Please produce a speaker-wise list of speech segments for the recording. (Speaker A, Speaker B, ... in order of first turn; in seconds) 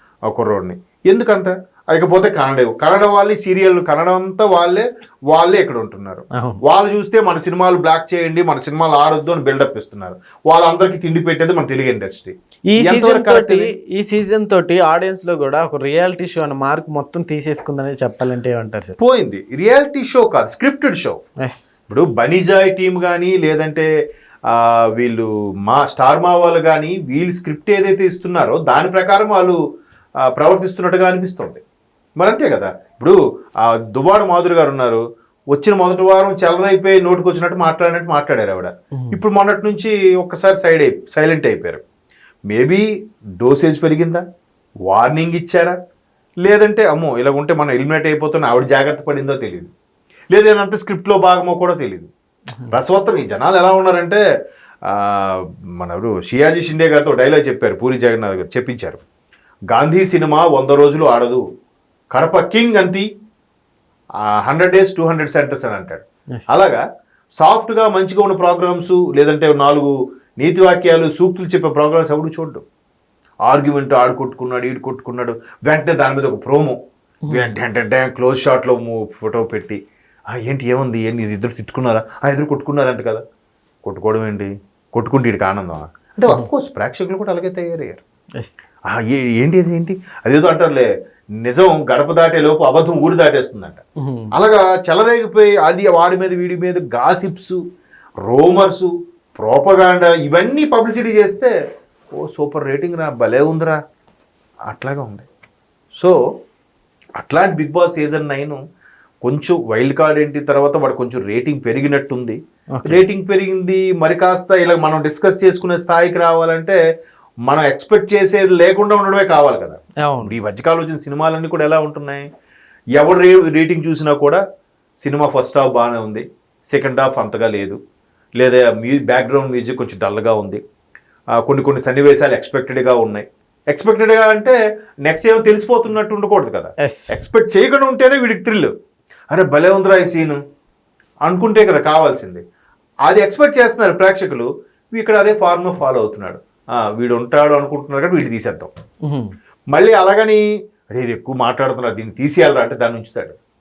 Speaker A: 0.3-13.7, 19.0-21.2, 21.9-23.9, 24.5-29.6, 30.2-31.6, 32.2-41.8, 42.5-42.8, 43.4-44.2, 44.9-45.7, 46.4-49.7, 50.3-52.1, 52.7-54.2, 54.9-59.0, 59.7-61.4, 62.1-63.0, 64.3-66.8, 67.4-72.6, 73.5-76.8, 77.3-79.8, 80.3-83.2, 83.8-88.0, 88.9-90.9, 91.4-93.8, 94.3-97.6, 98.2-101.5, 102.2-103.8, 104.7-105.2, 107.2-108.6, 109.2-116.8, 117.5-122.2, 123.0-124.4, 125.0-127.8, 128.4-130.6, 131.4-138.7, 139.3-140.4, 141.2-142.4, 143.1-148.7, 149.7-153.4
Speaker B: 6.3-6.6, 12.7-18.9, 21.4-21.8, 38.9-39.2, 77.2-77.5, 88.4-88.6, 94.0-94.3, 112.7-113.0, 120.0-120.3, 136.8-137.2, 149.0-149.3